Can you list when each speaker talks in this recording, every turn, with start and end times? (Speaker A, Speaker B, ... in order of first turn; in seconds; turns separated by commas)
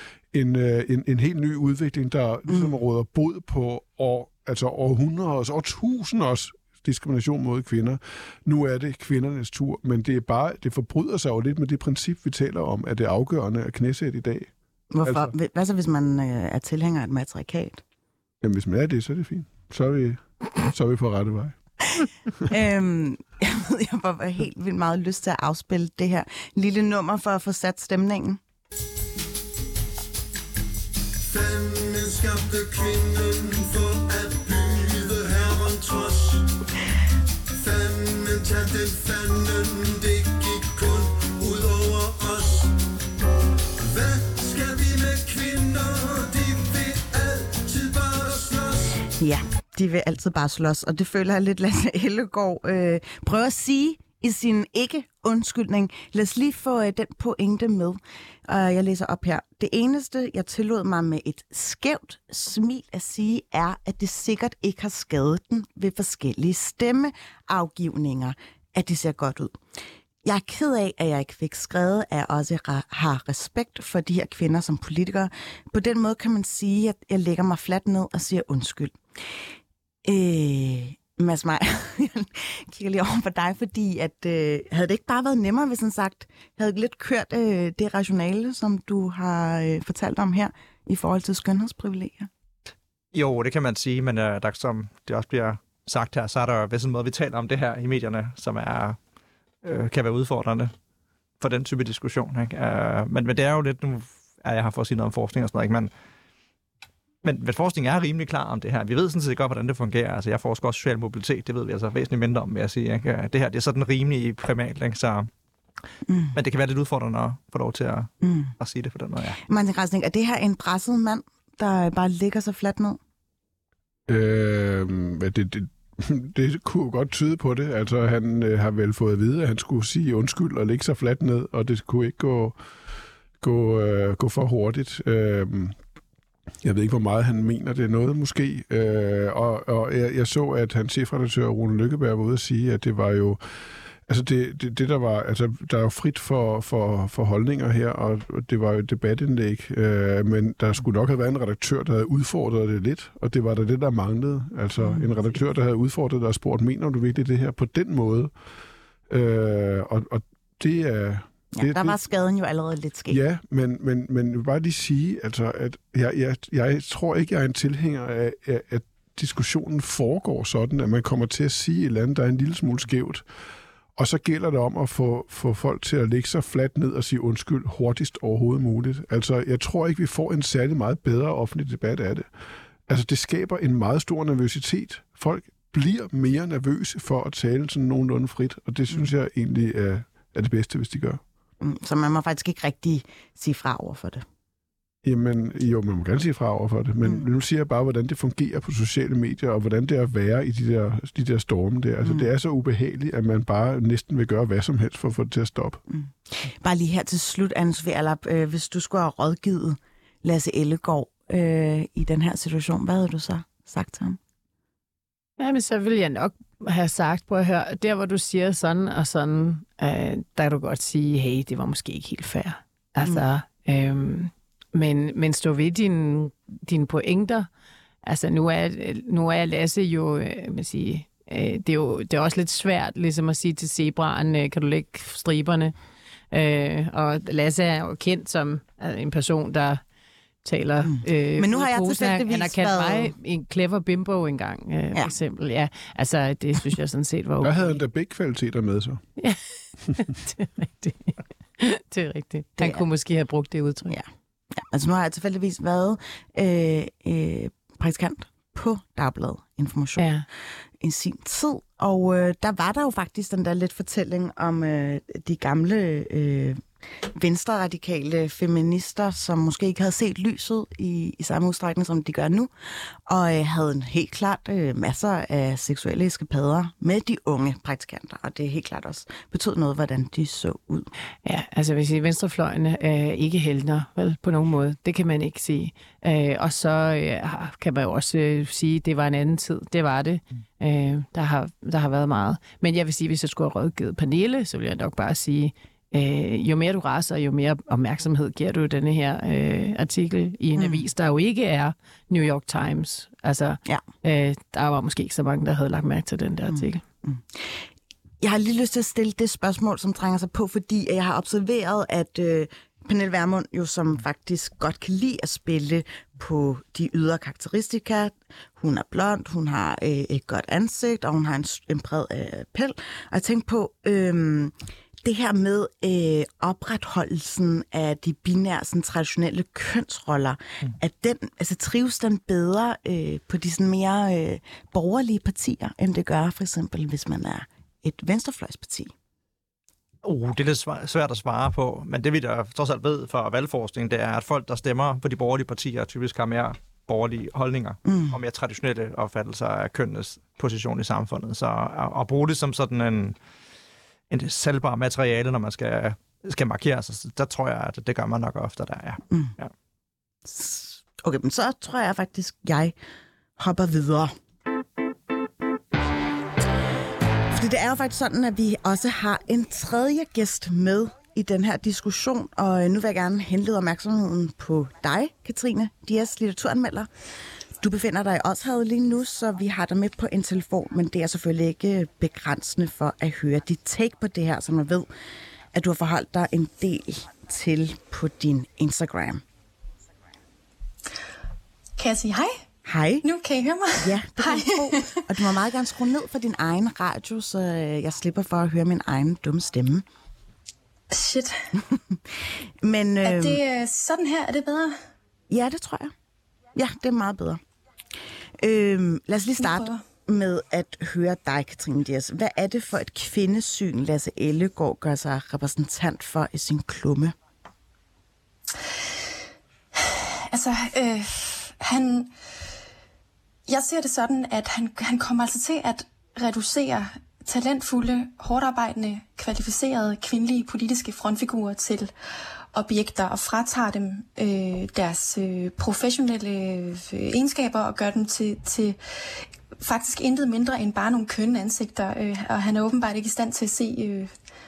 Speaker A: 0.3-14.5, Speaker B: 2.5-2.8, Speaker B: 14.9-17.8, Speaker A: 15.0-15.3, Speaker A: 18.4-21.6, Speaker B: 22.0-28.4, Speaker C: 31.3-32.9, Speaker C: 34.1-35.4, Speaker C: 38.4-39.1, Speaker C: 40.2-42.6, Speaker C: 43.9-45.7, Speaker C: 46.3-48.0, Speaker B: 48.8-69.6, Speaker B: 70.2-79.4, Speaker B: 80.0-92.3, Speaker D: 93.1-99.0, Speaker D: 99.6-100.7, Speaker D: 101.4-105.9, Speaker D: 107.2-115.3, Speaker B: 116.1-116.4, Speaker D: 116.3-119.4, Speaker B: 118.2-118.5, Speaker B: 119.4-123.0, Speaker A: 124.1-132.6, Speaker A: 133.4-135.8, Speaker A: 136.6-143.4, Speaker A: 144.1-158.3, Speaker B: 154.8-155.1, Speaker A: 159.1-162.0, Speaker B: 161.5-163.2, Speaker A: 163.1-173.2, Speaker A: 174.0-182.3, Speaker A: 182.9-191.2, Speaker B: 191.6-194.2, Speaker A: 195.0-205.8, Speaker B: 197.0-197.3, Speaker B: 202.0-202.3, Speaker B: 205.9-214.2, Speaker E: 215.4-227.5, Speaker E: 228.0-235.8, Speaker E: 236.3-239.8, Speaker E: 240.4-247.6, Speaker B: 240.8-243.1, Speaker A: 247.4-249.0, Speaker E: 249.2-254.0, Speaker B: 252.6-252.8, Speaker B: 253.9-260.1, Speaker E: 260.0-260.2, Speaker B: 260.8-280.9, Speaker E: 281.2-306.8, Speaker B: 300.6-300.9, Speaker B: 306.5-307.7, Speaker B: 308.2-338.9, Speaker D: 340.0-353.2, Speaker B: 347.9-348.2, Speaker D: 354.1-359.5, Speaker B: 360.2-362.8, Speaker B: 363.4-364.1, Speaker B: 367.3-376.9, Speaker B: 377.6-384.9, Speaker B: 385.5-389.2, Speaker F: 391.8-392.3, Speaker B: 392.6-393.1, Speaker F: 393.0-395.0, Speaker B: 393.8-399.9, Speaker F: 400.9-401.5, Speaker B: 401.6-403.4, Speaker F: 403.0-404.8, Speaker B: 405.3-405.9, Speaker B: 406.6-407.4, Speaker B: 408.4-417.2, Speaker F: 409.4-409.8, Speaker F: 419.8-422.1, Speaker F: 423.5-431.9, Speaker F: 432.5-438.8, Speaker F: 439.6-444.1